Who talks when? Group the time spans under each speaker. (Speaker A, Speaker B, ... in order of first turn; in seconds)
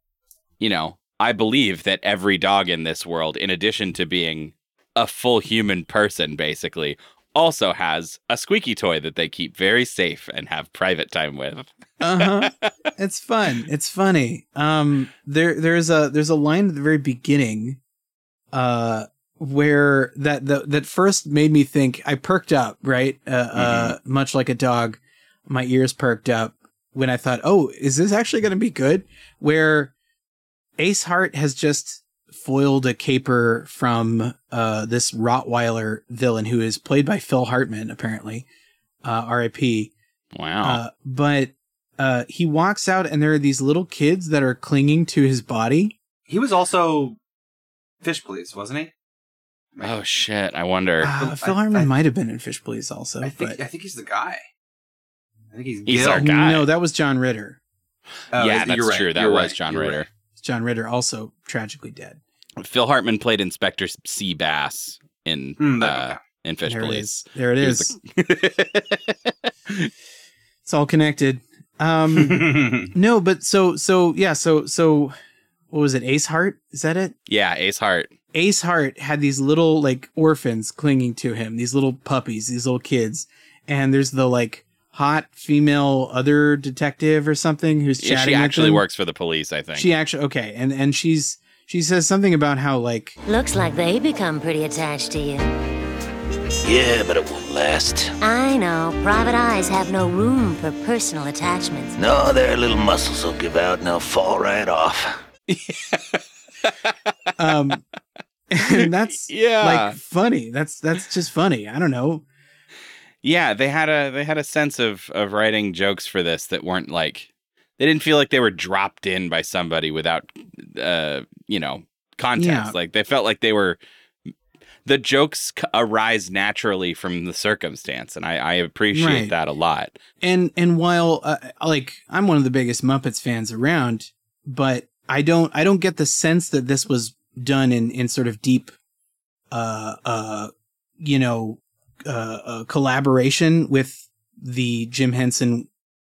Speaker A: 0.6-12.7, 23.6-23.9, 40.3-40.8, 49.8-51.1, 55.9-56.6, 58.4-60.1, 62.6-69.1, 77.3-78.1, 88.0-89.9, 106.7-106.9, 108.8-110.0, 113.2-123.8, 124.8-130.0
Speaker B: 12.0-17.8, 18.5-29.9, 30.8-38.5, 39.0-39.9, 40.6-45.9, 51.0-53.6, 56.0-57.6, 60.4-62.2, 66.7-67.9, 70.7-75.1, 75.7-77.1, 78.3-88.8, 89.7-93.2, 107.4-107.8, 108.5-112.2, 122.3-122.8, 128.9-129.3, 130.2-138.7, 139.5-145.7
Speaker C: 46.3-47.2, 48.0-48.9, 51.1-51.9, 53.2-54.4, 55.5-56.2, 58.3-60.0, 65.6-66.2, 72.2-72.9
Speaker D: 93.3-95.5, 98.2-101.9
Speaker E: 96.6-98.2, 102.0-105.2